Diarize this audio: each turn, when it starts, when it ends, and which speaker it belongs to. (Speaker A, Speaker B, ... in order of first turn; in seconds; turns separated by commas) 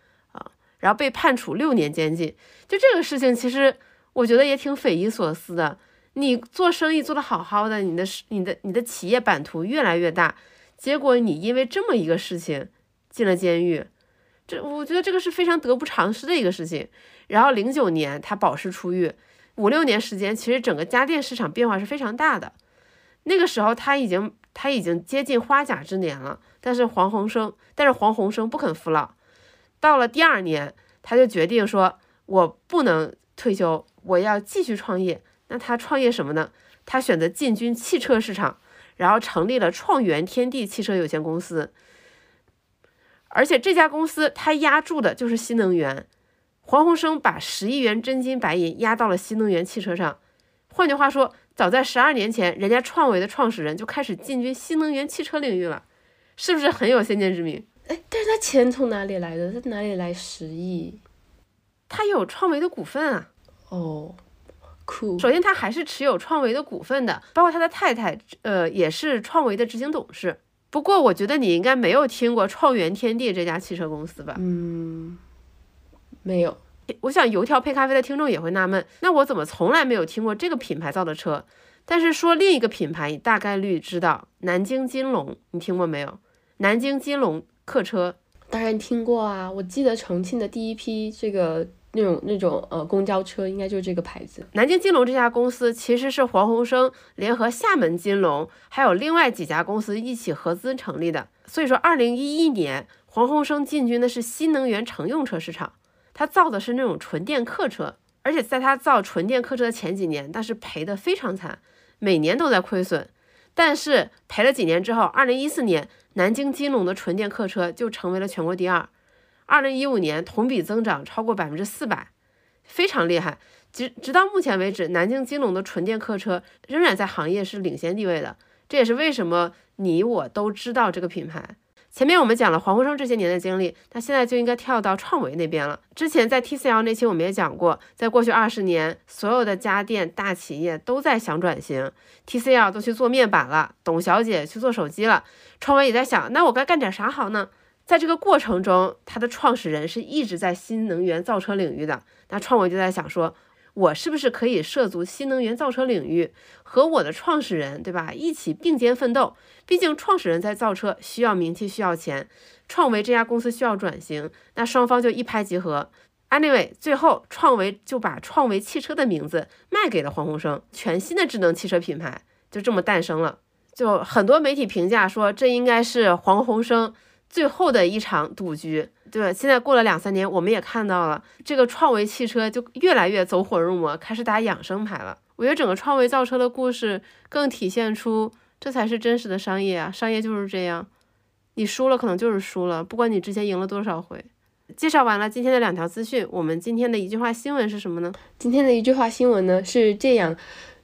Speaker A: 0.3-13.9, Speaker A: 14.5-22.5, Speaker A: 23.2-29.1, Speaker A: 29.8-41.7, Speaker A: 43.3-46.0, Speaker A: 46.6-50.2, Speaker A: 50.7-55.8, Speaker A: 56.4-57.6, Speaker B: 57.9-61.0, Speaker A: 61.9-63.3, Speaker B: 63.7-64.2, Speaker B: 64.8-65.3, Speaker A: 65.2-74.4, Speaker B: 74.3-75.2, Speaker B: 76.2-76.6, Speaker A: 77.0-88.2, Speaker B: 88.5-94.5, Speaker A: 94.5-118.9, Speaker A: 119.5-122.1, Speaker A: 122.7-190.9, Speaker A: 191.5-198.2, Speaker B: 198.4-200.4